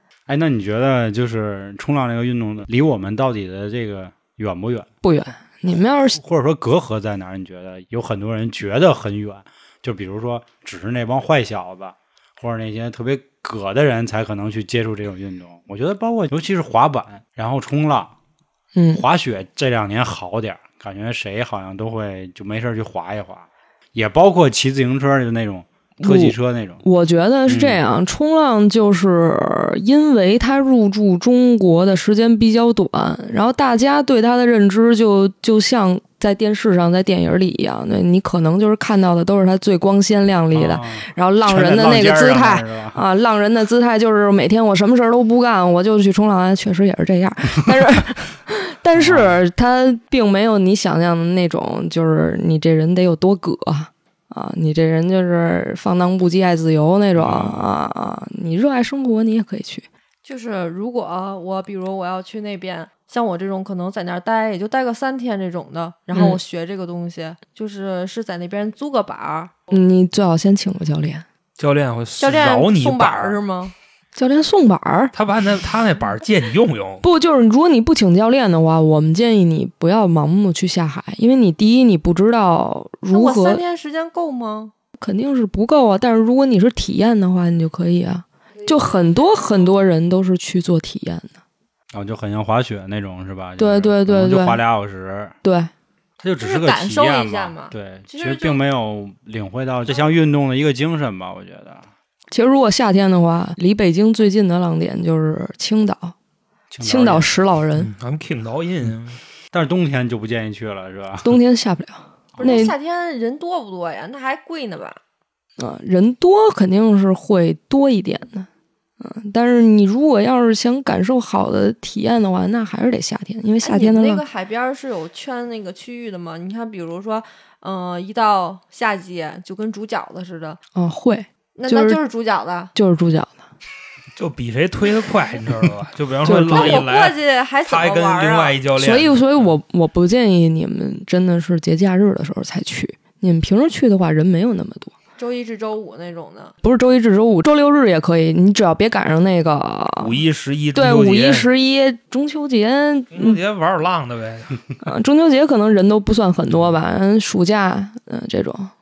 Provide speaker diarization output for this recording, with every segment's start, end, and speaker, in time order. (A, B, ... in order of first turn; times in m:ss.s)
0:00.3-0:04.9 A
0:05.0-0:06.2 B
0:06.2-0:18.1 A
0:18.8-0:19.0 B
0:18.9-0:26.8 A
0:26.0-0:59.8 B
0:27.5-0:27.8 A
0:40.5-0:43.0 A
0:49.0-0:49.4 A
0:57.2-0:57.8 A
1:00.2-1:09.5 C
1:06.1-1:06.4 B
1:09.7-1:11.2 B
1:11.6-1:13.4 D
1:12.2-1:13.8 C
1:14.2-1:15.1 B
1:15.1-1:17.0 D
1:17.0-1:23.6 B
1:23.1-1:24.7 C
1:25.0-1:31.3 B
1:31.9-1:35.4 A
1:33.6-1:34.6 B
1:35.4-1:35.7 B
1:36.2-1:41.8 A
1:36.4-1:38.6 C
1:42.3-1:46.2 B
1:46.7-1:47.3 A
1:46.8-1:47.9 B
1:47.8-1:49.2 D
1:49.5-1:51.4 A
1:51.2-1:52.8 B
1:52.3-1:52.7 A
1:52.4-1:55.0 C
1:55.6-1:58.5 B
1:59.0-2:04.2 B
2:03.6-2:10.6 C
2:10.8-2:12.0 B
2:11.6-2:12.7 C
2:12.7-2:13.4 B
2:14.2-2:19.6 D
2:16.2-2:16.8 B
2:16.5-2:18.6 C
2:18.8-2:24.9 B
2:25.2-2:26.6 C
2:26.6-2:30.2 B
2:30.0-2:31.5 D
2:30.8-2:33.4 B
2:33.1-2:34.6 D
2:34.8-2:38.7 B